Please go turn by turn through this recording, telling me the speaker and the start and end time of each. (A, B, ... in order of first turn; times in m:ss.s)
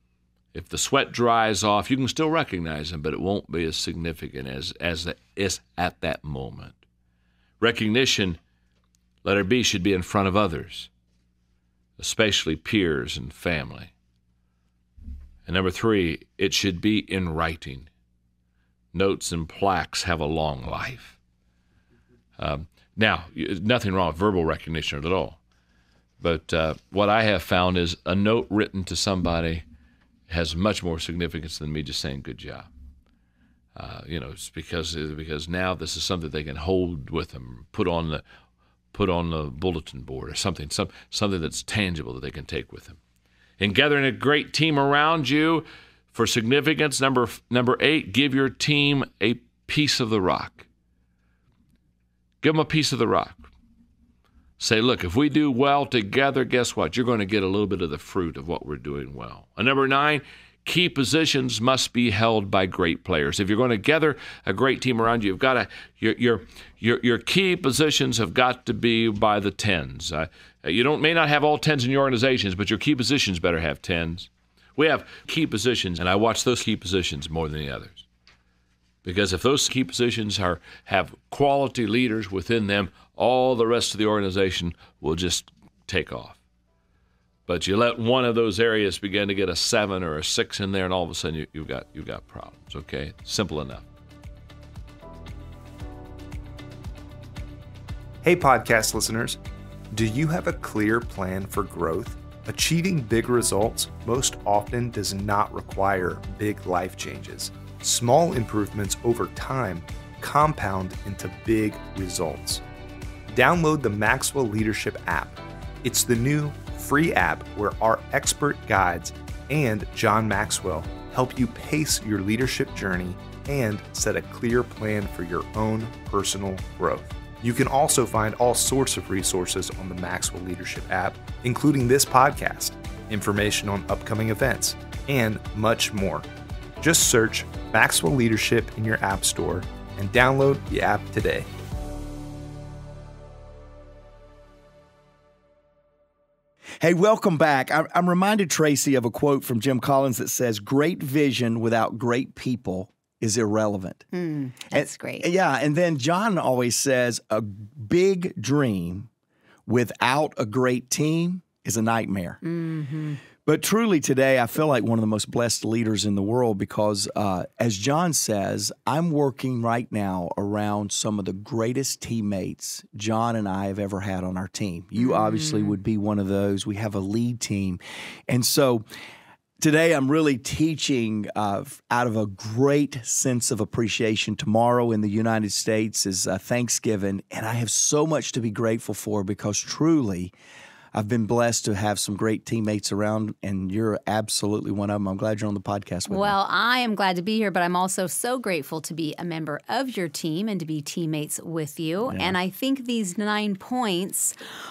0:00.5-0:06.8 A
0:07.6-0:08.4 A
0:09.2-0:10.9 A
0:12.0-0:13.9 A
0:15.4-0:17.9 A
0:18.9-0:21.2 A
0:22.4-0:25.4 A
0:26.2-0:29.6 A
0:30.3-0:32.7 A
0:33.7-0:38.2 A
0:38.9-0:43.0 A
0:43.6-0:50.6 A
0:52.4-0:53.5 A
0:54.6-1:18.0 A
1:19.0-1:26.4 A
1:27.5-1:33.8 A
1:38.2-1:39.4 B
1:39.9-1:52.6 B
1:53.3-2:16.3 B
2:16.8-2:21.5 B
2:26.8-2:34.0 C
2:34.1-2:35.3 D
2:34.7-2:39.1 C
2:39.6-2:42.4 C
2:42.4-2:43.2 D
2:43.4-2:58.8 C
2:55.0-2:55.7 D
2:59.6-3:10.3 C
3:10.9-3:16.4 C
3:16.1-3:24.3 D
3:22.0-3:22.4 C